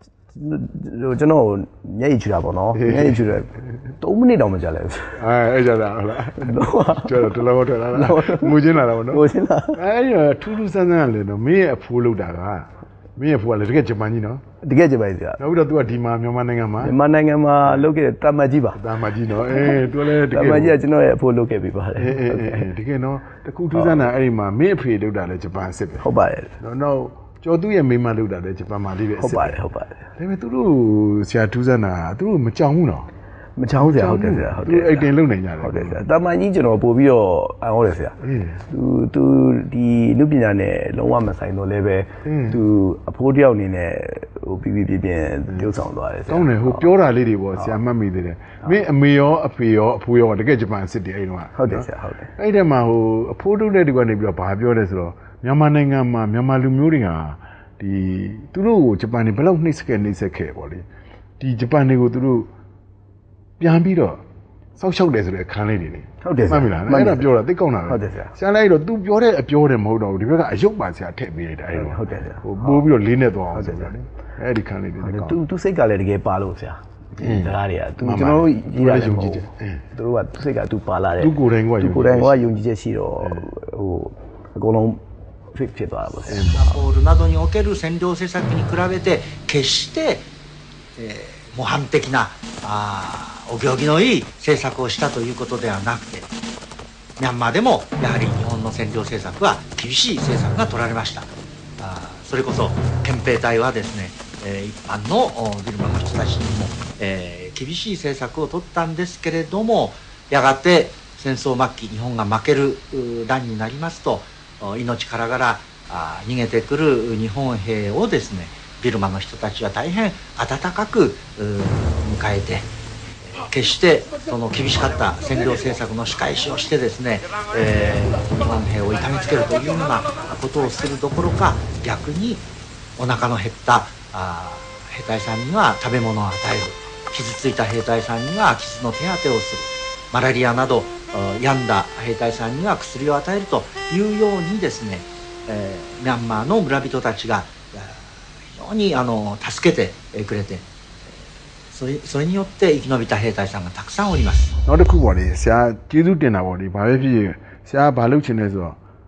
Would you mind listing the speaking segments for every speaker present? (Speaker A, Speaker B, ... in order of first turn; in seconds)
Speaker A: 0.3-5.2, 6.4-7.3, 7.9-9.8, 14.6-15.4, 16.8-18.8, 20.3-22.7, 23.8-24.0, 26.0-26.5, 29.2-30.1, 33.6-38.2, 38.7-46.9, 51.6-52.3, 66.2-68.3, 71.7-72.8, 73.5-73.9, 75.0-85.0, 85.5-86.5
Speaker B: 2.8-3.2, 5.2-14.4, 15.4-16.9, 18.8-20.8, 22.0-26.1, 26.6-29.6, 30.2-33.1, 33.8-36.0, 38.2-38.6, 42.2-42.6, 46.3-60.9, 61.4-62.5, 63.6-64.2, 64.8-75.4, 77.2-79.8, 81.2-82.4, 86.3-86.7, 154.7-158.8
Speaker C: 86.5-90.2, 91.0-96.3, 97.2-122.7, 123.2-132.4, 133.0-150.6, 151.7-154.5